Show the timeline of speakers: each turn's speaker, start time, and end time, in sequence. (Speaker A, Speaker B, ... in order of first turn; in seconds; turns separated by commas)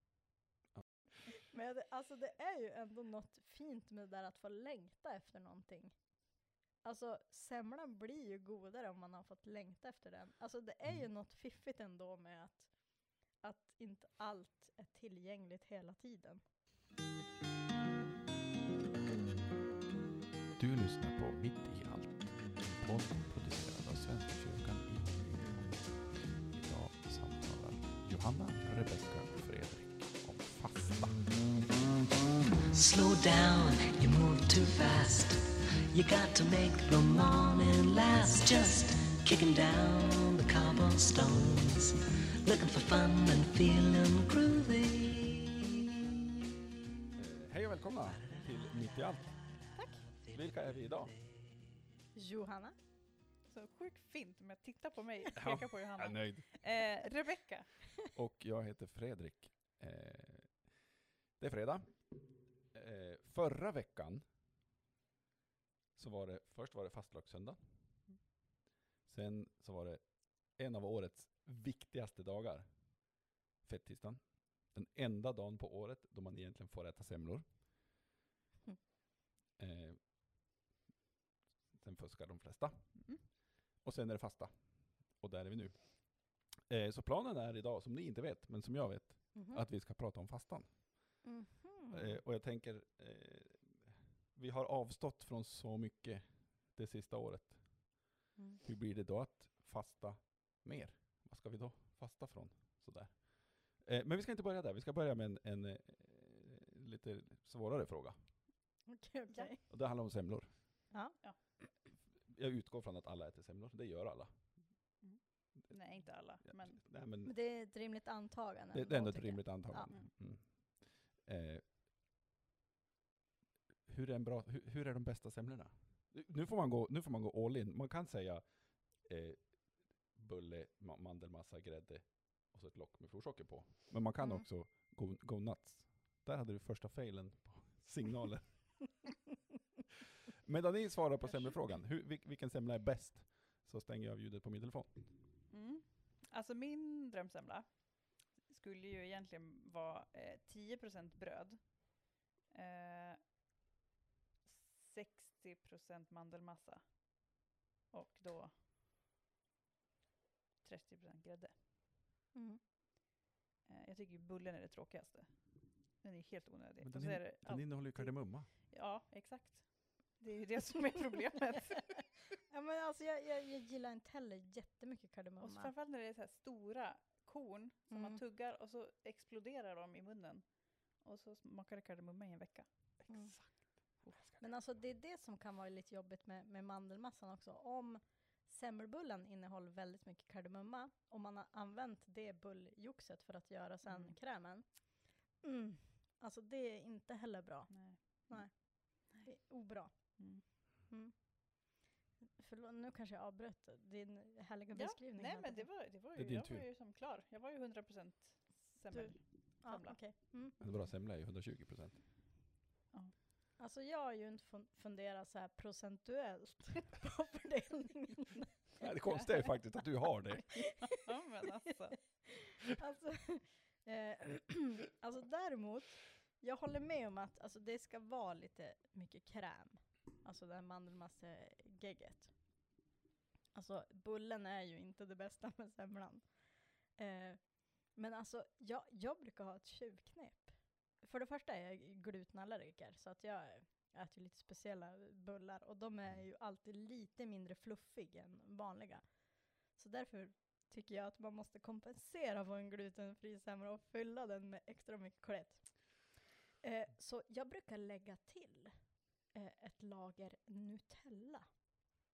Speaker A: 1.5-16.4, Speaker B: 20.6-31.3, Speaker C: 32.7-45.8, Speaker B: 47.1-49.6, Speaker B: 50.3-51.1, Speaker A: 52.1-52.8, Speaker D: 53.5-57.8, Speaker B: 55.4-56.8, Speaker B: 58.1-64.3, Speaker B: 66.0-68.1, Speaker B: 69.1-77.5, Speaker B: 79.6-80.3, Speaker B: 81.7-91.2, Speaker D: 83.0-83.2, Speaker A: 89.3-89.7, Speaker A: 91.2-92.2, Speaker B: 91.9-108.3, Speaker A: 108.9-109.6, Speaker B: 109.7-110.9, Speaker A: 110.9-111.6, Speaker B: 111.9-114.9, Speaker D: 115.0-116.8, Speaker B: 116.4-117.4, Speaker A: 117.2-119.9, Speaker B: 118.7-121.7, Speaker B: 123.9-139.1, Speaker B: 140.4-145.2, Speaker D: 145.5-153.2, Speaker D: 154.4-158.6, Speaker D: 160.6-161.6, Speaker A: 162.3-162.6, Speaker D: 163.7-172.1, Speaker B: 166.8-168.5, Speaker A: 172.5-175.7, Speaker D: 175.4-182.7, Speaker A: 177.9-178.2, Speaker B: 183.0-184.7, Speaker A: 183.1-201.9, Speaker D: 193.8-194.2, Speaker D: 197.7-199.3, Speaker D: 200.2-200.4, Speaker A: 202.4-205.7, Speaker D: 204.7-210.0, Speaker B: 206.1-206.7, Speaker A: 208.9-210.6, Speaker B: 210.6-212.1, Speaker A: 213.6-218.6, Speaker B: 218.8-220.8, Speaker D: 220.9-222.3, Speaker A: 222.3-232.7, Speaker A: 233.5-261.5